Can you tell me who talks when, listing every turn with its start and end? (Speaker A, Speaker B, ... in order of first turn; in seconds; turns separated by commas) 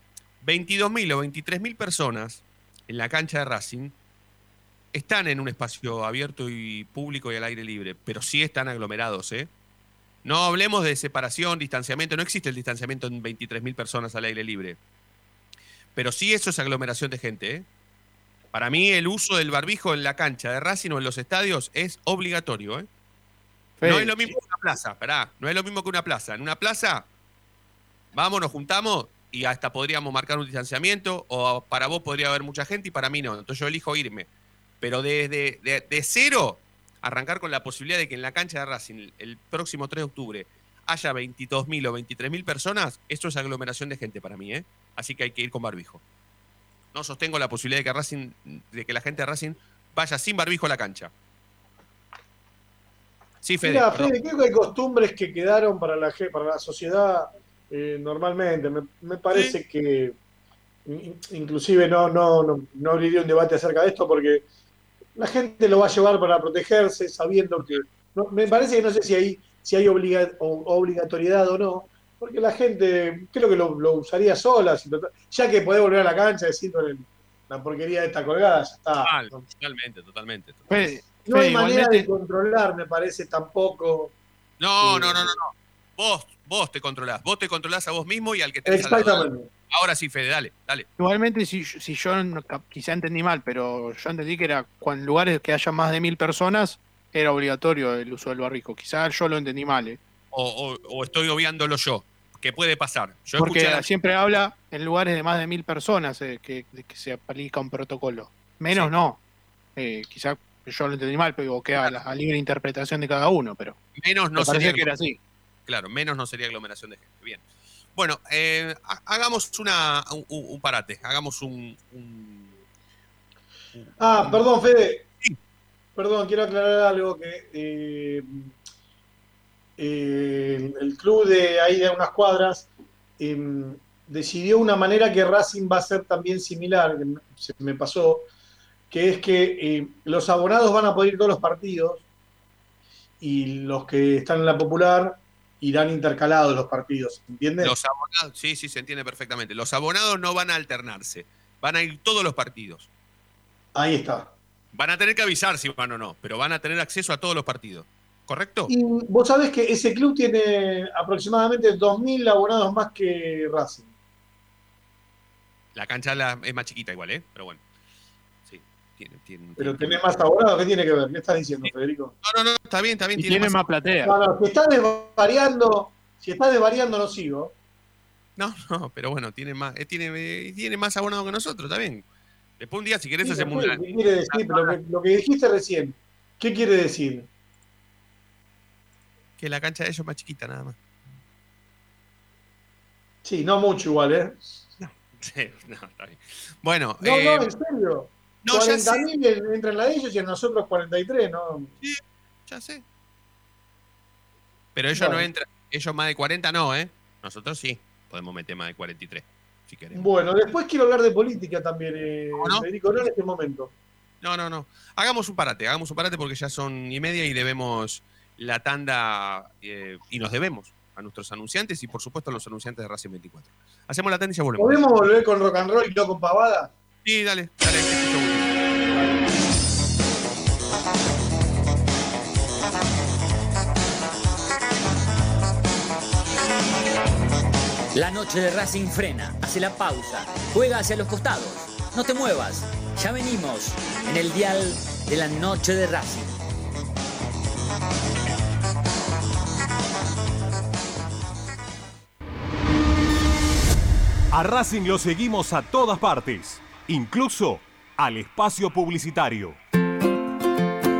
Speaker A: 0.4-4.0, Speaker A: 4.9-9.5, Speaker A: 10.2-14.8, Speaker A: 15.9-17.7, Speaker A: 18.5-22.9, Speaker B: 23.8-24.2, Speaker A: 23.8-27.1, Speaker A: 28.1-34.3, Speaker A: 34.8-46.0, Speaker A: 46.9-51.1, Speaker A: 53.4-54.1, Speaker C: 53.6-60.1, Speaker C: 60.9-64.4, Speaker C: 65.2-79.4, Speaker A: 79.0-81.0, Speaker B: 80.7-82.1, Speaker C: 81.2-84.1, Speaker A: 84.6-90.9, Speaker C: 84.8-85.3, Speaker C: 88.6-89.5, Speaker B: 91.0-100.0, Speaker A: 100.3-103.8, Speaker B: 103.4-109.2, Speaker B: 109.8-113.8, Speaker A: 114.0-114.9, Speaker B: 114.4-115.2, Speaker A: 115.7-117.4, Speaker A: 117.9-122.5, Speaker A: 123.7-124.4, Speaker C: 124.0-125.0, Speaker C: 126.0-128.5, Speaker C: 129.8-138.3, Speaker C: 138.9-142.0, Speaker C: 143.2-147.7, Speaker A: 147.6-152.9, Speaker C: 153.7-154.3, Speaker A: 154.7-158.7, Speaker C: 158.7-163.9, Speaker A: 165.7-167.6, Speaker A: 168.4-170.0, Speaker C: 169.6-172.1, Speaker A: 172.2-173.6, Speaker B: 173.2-174.1, Speaker C: 174.0-177.5, Speaker A: 178.3-182.0, Speaker A: 182.6-184.8, Speaker C: 183.2-187.3, Speaker A: 189.4-190.8, Speaker C: 193.2-194.6, Speaker A: 194.8-197.5, Speaker C: 197.0-201.7, Speaker A: 198.4-199.1, Speaker A: 201.8-202.8, Speaker A: 204.7-210.1, Speaker C: 204.9-205.3, Speaker C: 209.9-213.7, Speaker A: 212.4-212.6, Speaker A: 214.2-224.8, Speaker C: 224.6-226.7, Speaker A: 227.0-228.6, Speaker D: 237.9-246.3, Speaker E: 254.3-259.6